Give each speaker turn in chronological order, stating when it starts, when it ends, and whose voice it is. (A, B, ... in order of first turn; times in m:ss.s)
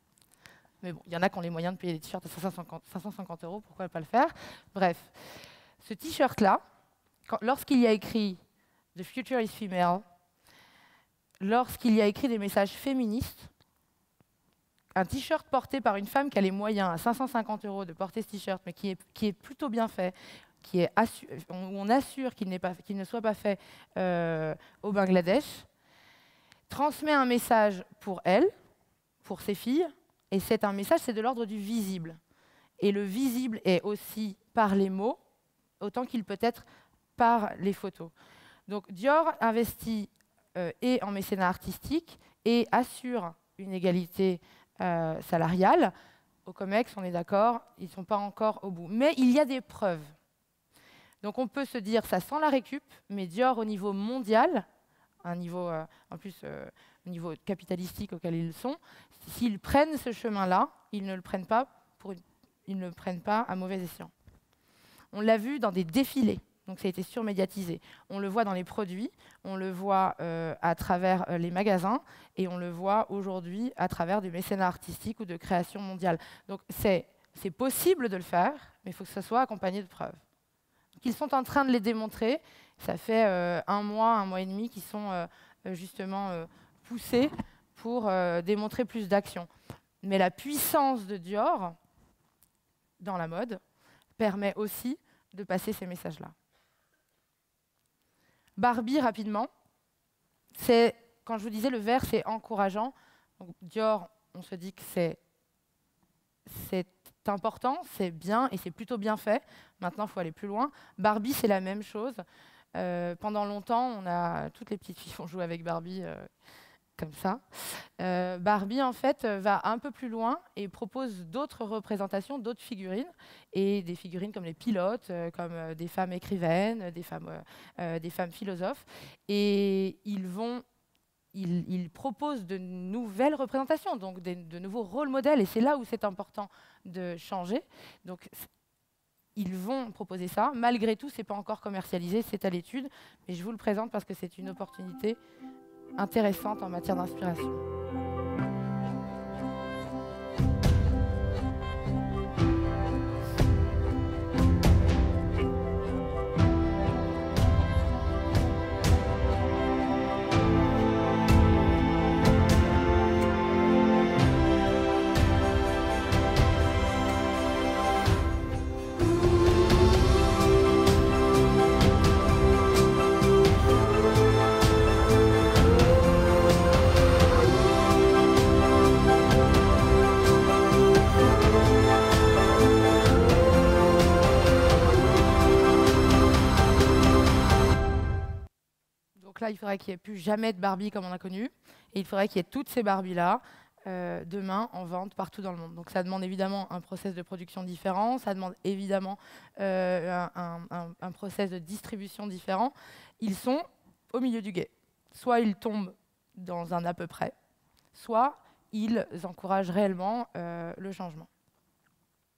0:00.8-0:05.1 A
0:05.8-0:06.6 A
0:07.3-0:08.4 A
0:09.0-0:10.0 A
0:11.4-0:13.5 A
0:15.0-0:25.7 A
0:26.7-0:28.5 A
0:29.2-0:32.2 A
0:32.8-0:35.2 A
0:35.8-0:36.6 A
0:37.2-0:38.1 A
0:38.7-0:45.9 A
0:46.5-0:50.2 A
0:51.2-0:54.7 A
0:55.2-1:04.1 A
1:05.1-1:20.2 A
1:21.0-1:29.5 A
1:30.0-1:31.8 A
1:33.0-1:33.6 A
1:34.2-1:36.3 A
1:38.6-1:39.5 A
1:40.5-1:45.2 A
1:46.5-1:52.2 A
1:52.8-1:56.3 A
1:57.0-1:57.4 A
1:58.0-2:10.6 A
2:11.3-2:18.5 A
2:19.4-2:25.2 A
2:26.0-2:27.6 A
3:09.2-3:27.4 A
3:27.9-3:31.3 A